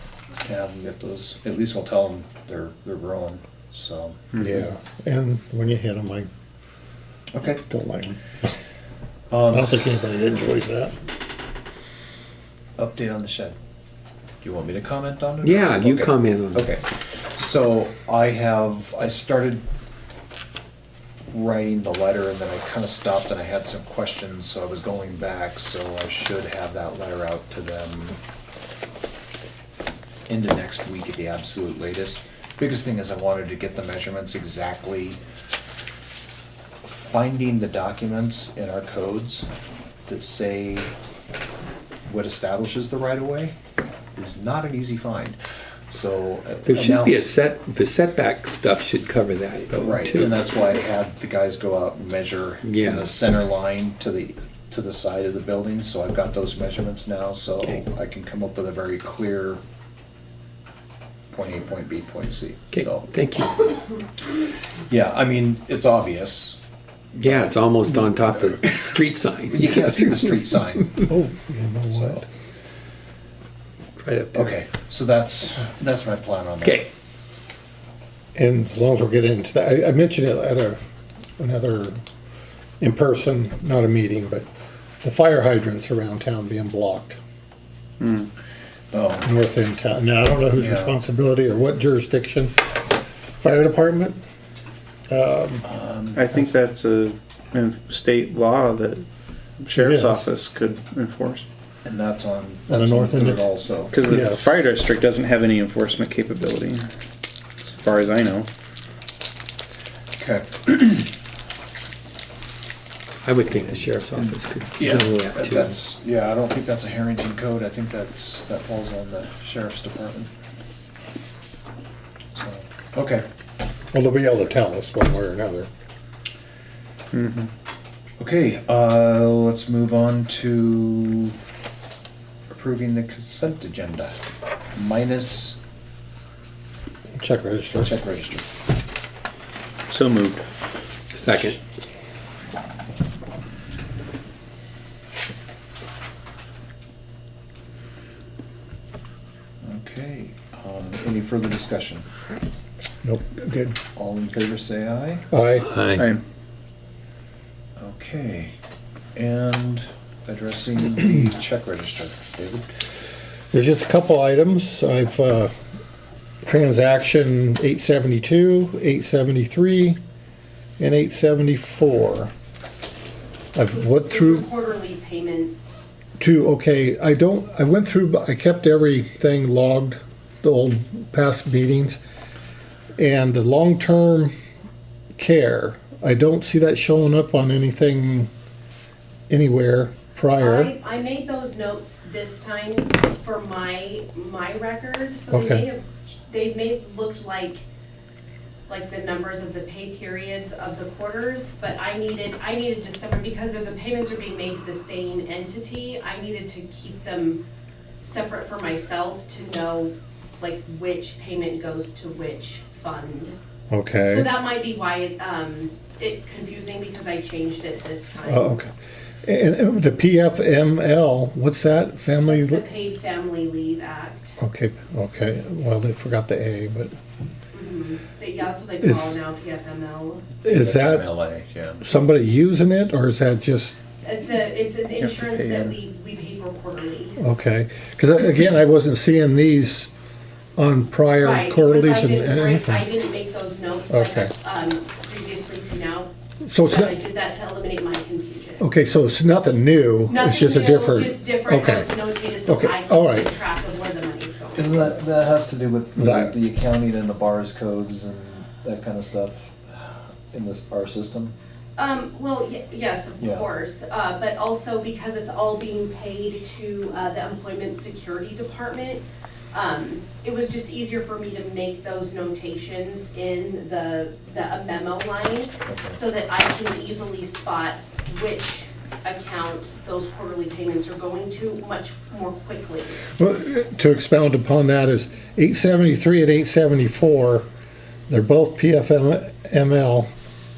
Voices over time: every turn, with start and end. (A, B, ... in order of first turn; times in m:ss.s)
0:00.4-0:04.4 A
0:04.3-0:04.6 B
0:04.4-0:06.3 C
0:07.3-0:07.6 A
0:07.7-0:08.5 C
0:09.3-0:09.8 A
0:09.5-0:11.0 C
0:12.8-0:13.6 A
0:14.4-0:19.7 A
0:15.4-0:16.7 D
0:21.3-0:28.2 A
0:30.3-0:35.2 A
0:36.8-0:39.5 A
0:40.0-0:40.9 A
0:42.1-0:43.6 A
0:44.1-0:45.4 A
0:45.9-0:47.2 A
0:46.7-0:50.4 D
0:49.8-0:59.6 A
0:52.6-0:53.1 D
1:01.3-1:03.1 A
1:02.7-1:03.7 D
1:04.9-1:06.6 A
1:07.2-1:09.0 A
1:07.2-1:10.4 D
1:09.5-1:11.1 A
1:11.1-1:12.2 C
1:11.9-1:12.2 A
1:14.0-1:14.6 D
1:14.3-1:16.9 A
1:18.4-1:20.8 C
1:21.4-1:22.0 C
1:22.8-1:24.5 C
1:25.0-1:27.2 C
1:28.0-1:28.3 B
1:28.9-1:29.3 A
1:29.2-1:32.8 C
1:30.6-1:31.0 A
1:33.4-1:34.2 C
1:35.1-1:35.7 C
1:35.6-1:36.3 A
1:36.1-1:39.1 B
1:39.6-1:41.4 B
1:39.7-1:40.2 C
1:41.8-1:44.0 A
1:42.7-1:43.4 C
1:43.9-1:46.9 B
1:44.0-1:44.4 C
1:47.6-1:48.5 B
1:50.2-1:51.1 A
1:53.2-1:55.7 D
1:54.2-2:00.3 A
2:02.3-2:03.2 A
2:03.9-2:05.7 C
2:07.1-2:07.5 B
2:08.2-2:11.4 A
2:12.5-2:14.2 A
2:14.8-2:15.6 A
2:17.2-2:17.9 C
2:17.8-2:18.4 A
2:19.9-2:20.4 B
2:21.1-2:21.6 D
2:29.6-2:32.1 A
2:33.0-2:33.8 C
2:34.0-2:35.2 A
2:35.3-2:35.8 C
2:35.7-2:36.0 D
2:36.0-2:36.2 B
2:37.8-2:38.6 A
2:39.2-2:42.7 A
2:43.5-2:45.5 C
2:46.4-2:50.0 C
2:50.8-2:52.3 C
2:53.5-2:54.5 C
2:54.0-2:55.7 E
2:56.2-3:02.0 C
3:03.0-3:04.3 C
3:05.2-3:08.3 C
3:09.3-3:10.7 C
3:10.4-3:17.6 E
3:15.3-3:15.7 C
3:18.7-3:27.4 E
3:28.0-3:33.3 E
3:33.7-3:34.3 C
3:34.1-3:38.6 E
3:38.2-3:38.7 C
3:39.2-3:42.6 C
3:42.2-3:44.4 E
3:44.4-3:46.9 C
3:47.5-3:50.2 E
3:48.8-3:49.2 C
3:50.4-3:51.1 C
3:50.5-3:51.8 A
3:51.8-3:53.8 C
3:54.0-3:57.2 E
3:55.0-3:55.8 B
3:57.2-3:59.9 C
4:00.6-4:02.9 C
4:01.2-4:06.1 E
4:03.9-4:04.3 C
4:06.5-4:06.9 C
4:06.7-4:08.6 E
4:08.6-4:11.9 C
4:10.1-4:15.0 E
4:12.4-4:13.3 C
4:14.5-4:21.3 A
4:16.0-4:16.3 C
4:21.8-4:43.0 E
4:23.2-4:23.5 A
4:35.7-4:36.0 A
4:43.1-4:47.4 C
4:48.1-4:50.1 C